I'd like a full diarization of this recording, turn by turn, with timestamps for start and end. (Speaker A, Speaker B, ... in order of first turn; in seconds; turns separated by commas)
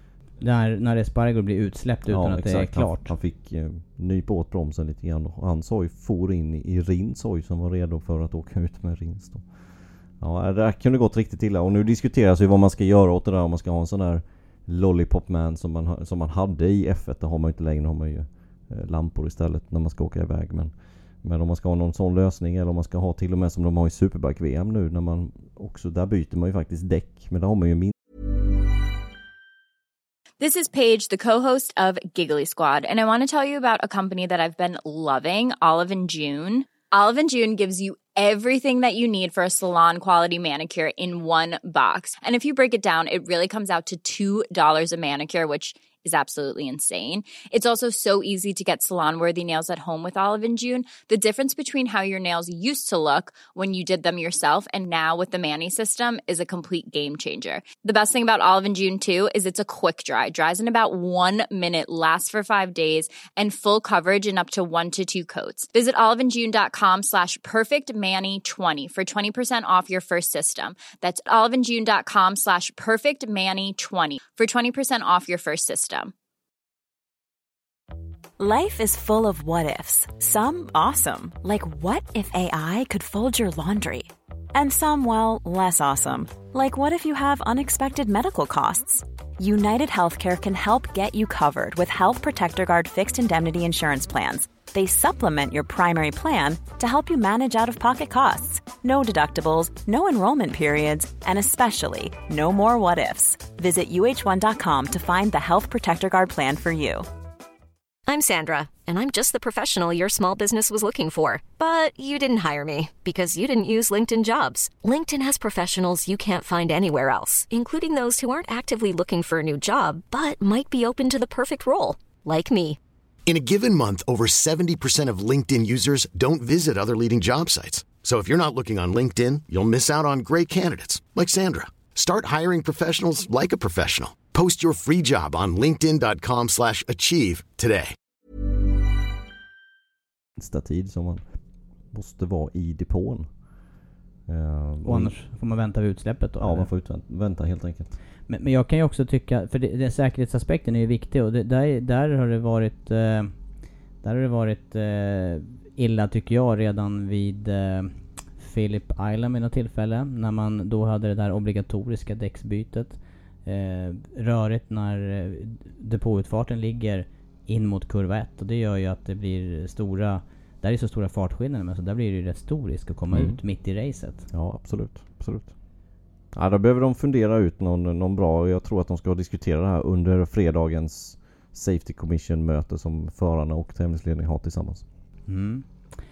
Speaker A: 0.4-3.1, Speaker B: 2.1-9.4, Speaker B: 10.2-27.9, Speaker C: 30.4-76.1, Speaker D: 78.4-107.1, Speaker E: 108.1-122.8, Speaker F: 123.2-137.9, Speaker B: 140.4-141.2, Speaker B: 141.9-143.3, Speaker B: 144.3-145.1, Speaker A: 144.8-146.7, Speaker B: 146.4-147.9, Speaker A: 148.3-153.3, Speaker A: 154.0-174.3, Speaker B: 173.1-173.4, Speaker B: 174.3-175.5, Speaker B: 176.3-184.8, Speaker A: 185.3-185.6